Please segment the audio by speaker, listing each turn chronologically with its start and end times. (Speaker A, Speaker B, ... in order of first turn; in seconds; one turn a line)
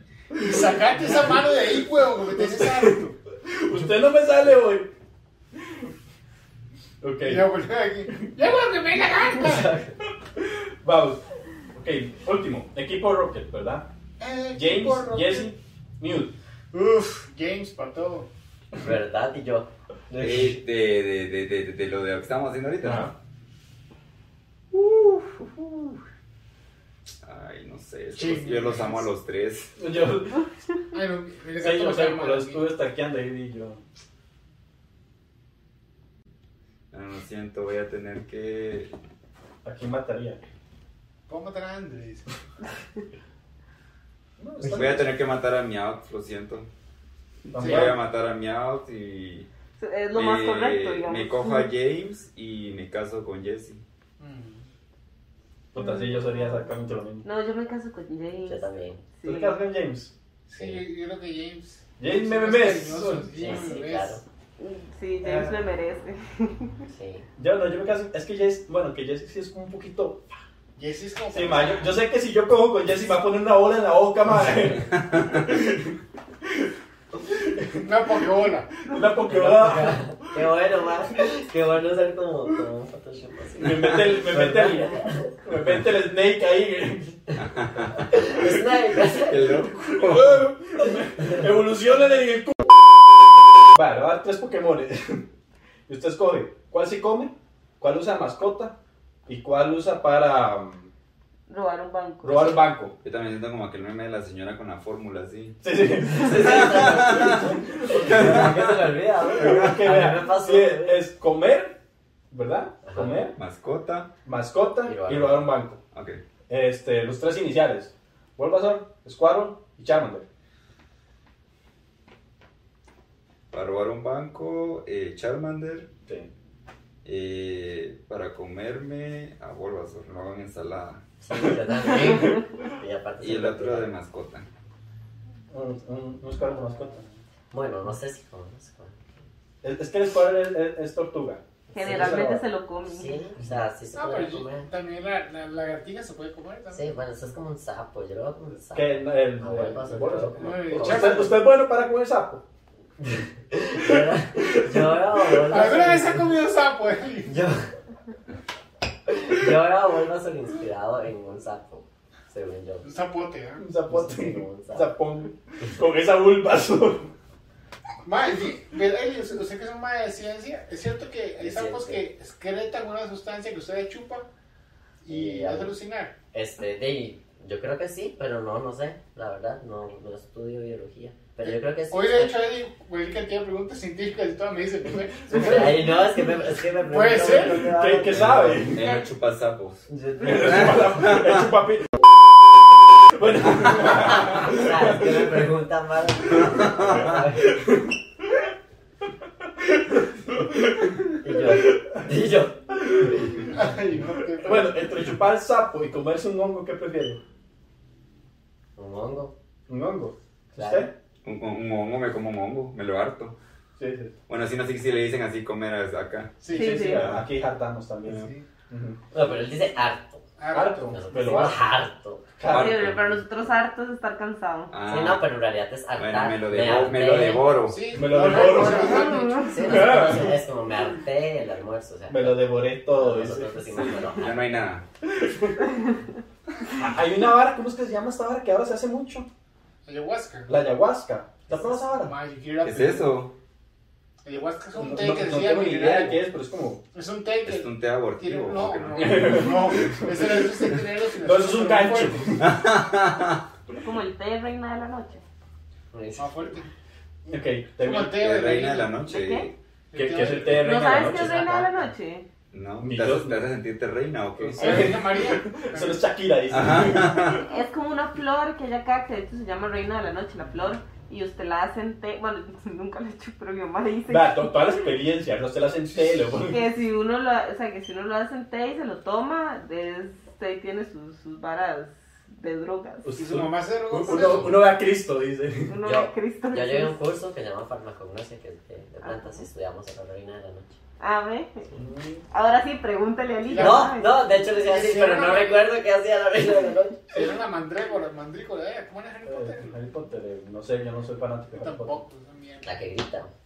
Speaker A: 0.3-3.2
Speaker B: 0.4-1.3
Speaker B: 2.3-4.9
Speaker B: 7.0-7.5
Speaker A: 7.2-9.8
Speaker B: 10.0-11.2
Speaker B: 11.7-13.9
Speaker A: 14.2-15.5
Speaker B: 14.5-16.3
Speaker A: 16.7-18.3
Speaker C: 18.8-19.7
Speaker D: 20.2-23.1
Speaker B: 22.8-23.1
Speaker D: 24.7-26.0
Speaker D: 27.2-29.8
Speaker A: 28.1-29.1
Speaker B: 29.8-30.5
Speaker A: 30.9-32.7
Speaker B: 31.6-33.8
Speaker D: 36.9-38.9
Speaker B: 39.6-40.4
Speaker A: 41.3-42.3
Speaker B: 44.4-45.1
Speaker D: 44.6-46.7
Speaker B: 47.5-48.0
Speaker D: 47.5-49.5
Speaker A: 47.6-47.9
Speaker E: 49.8-51.7
Speaker D: 50.1-53.8
Speaker A: 54.2-54.7
Speaker B: 55.7-57.3
Speaker E: 55.8-56.7
Speaker E: 57.2-59.6
Speaker C: 58.5-59.0
Speaker B: 59.2-60.1
Speaker A: 60.5-64.2
Speaker C: 60.6-60.8
Speaker B: 62.0-63.3
Speaker C: 63.4-64.2
Speaker E: 64.6-66.8
Speaker A: 65.2-65.5
Speaker C: 66.9-67.3
Speaker B: 67.4-70.4
Speaker A: 70.8-72.0
Speaker B: 71.3-76.7
Speaker B: 77.3-80.2
Speaker A: 77.8-78.7
Speaker C: 79.3-85.3
Speaker B: 83.6-87.2
Speaker D: 87.4-90.5
Speaker C: 87.9-89.5
Speaker B: 90.0-92.6
Speaker B: 93.7-95.3
Speaker B: 95.9-98.8
Speaker B: 99.3-100.9
Speaker E: 101.5-102.7
Speaker B: 102.2-102.9
Speaker D: 103.0-105.6
Speaker B: 105.6-108.7
Speaker C: 106.1-111.0
Speaker D: 106.3-107.5
Speaker D: 108.0-108.8
Speaker B: 109.3-111.8
Speaker B: 112.3-113.4
Speaker C: 112.8-113.2
Speaker D: 113.4-114.1
Speaker B: 114.3-115.8
Speaker C: 114.8-115.5
Speaker D: 115.9-116.2
Speaker B: 116.5-120.3
Speaker D: 123.5-125.9
Speaker D: 127.0-131.0
Speaker C: 131.2-133.9
Speaker D: 133.2-134.5
Speaker B: 135.5-137.0
Speaker C: 137.5-139.2
Speaker B: 139.6-142.4
Speaker E: 141.7-143.2
Speaker C: 141.8-142.3
Speaker C: 142.9-144.7
Speaker A: 143.9-146.9
Speaker C: 146.7-151.4
Speaker B: 148.7-152.4
Speaker A: 150.4-151.4
Speaker C: 153.5-156.3
Speaker B: 154.4-155.5
Speaker A: 155.4-157.5
Speaker C: 157.3-157.6
Speaker C: 159.1-162.9
Speaker A: 162.8-163.7
Speaker B: 163.6-167.1
Speaker C: 163.9-164.9
Speaker A: 168.0-174.3
Speaker C: 171.4-172.0
Speaker A: 175.0-176.2
Speaker C: 175.1-175.8
Speaker C: 176.3-182.3
Speaker A: 181.4-186.0
Speaker C: 185.3-188.8
Speaker B: 185.3-185.9
Speaker A: 186.8-187.8
Speaker B: 187.5-188.8
Speaker D: 188.1-189.9
Speaker C: 189.9-190.8
Speaker B: 190.2-192.0
Speaker D: 190.4-191.4
Speaker B: 193.1-195.4
Speaker C: 193.8-197.6
Speaker D: 196.5-197.1
Speaker B: 197.4-197.9
Speaker B: 199.8-201.8
Speaker C: 201.2-202.6
Speaker B: 202.7-203.5
Speaker A: 203.4-205.1
Speaker B: 204.3-207.2
Speaker C: 208.8-209.3
Speaker B: 209.7-210.9
Speaker C: 210.5-210.9
Speaker D: 211.2-213.3
Speaker B: 213.8-214.1
Speaker D: 214.3-217.3
Speaker A: 216.4-216.8
Speaker B: 216.4-219.0
Speaker E: 216.5-217.1
Speaker A: 218.1-218.5
Speaker C: 219.1-222.3
Speaker A: 220.4-221.6
Speaker B: 220.5-221.6
Speaker B: 222.4-222.9
Speaker E: 222.5-224.7
Speaker D: 222.5-223.2
Speaker D: 224.7-225.3
Speaker C: 224.8-227.6
Speaker D: 225.9-227.9
Speaker A: 227.6-229.9
Speaker B: 227.9-230.5
Speaker C: 228.2-234.6
Speaker B: 232.1-233.9
Speaker D: 233.8-234.8
Speaker B: 235.0-235.7
Speaker B: 236.8-239.3
Speaker A: 239.8-240.5
Speaker B: 240.5-242.1
Speaker A: 241.5-243.2
Speaker D: 242.6-243.3
Speaker A: 244.2-246.2
Speaker B: 244.8-246.8
Speaker A: 246.9-252.4
Speaker D: 247.4-250.0
Speaker B: 249.0-250.4
Speaker B: 251.2-252.5
Speaker D: 252.4-253.4
Speaker E: 253.8-255.2
Speaker C: 255.9-256.6
Speaker A: 256.2-256.7
Speaker B: 257.3-258.2
Speaker A: 257.8-258.9
Speaker D: 258.1-259.5
Speaker E: 259.1-259.5
Speaker A: 259.9-261.1
Speaker B: 259.9-261.5
Speaker E: 260.5-262.3
Speaker C: 261.1-261.9
Speaker D: 262.5-264.9
Speaker B: 262.8-263.4
Speaker A: 264.5-266.0
Speaker B: 264.5-267.4
Speaker D: 266.5-267.4
Speaker E: 267.4-274.9
Speaker B: 274.1-276.6
Speaker E: 276.5-283.1
Speaker B: 283.0-285.8
Speaker A: 283.1-284.6
Speaker E: 285.7-287.0
Speaker C: 285.8-290.8
Speaker E: 289.0-289.5
Speaker E: 291.0-291.7
Speaker B: 291.8-292.2
Speaker E: 292.3-294.1
Speaker A: 293.5-293.9
Speaker C: 293.6-297.1
Speaker A: 294.5-295.6
Speaker A: 297.1-299.8
Speaker B: 299.2-302.0
Speaker A: 301.5-302.7
Speaker C: 302.6-303.3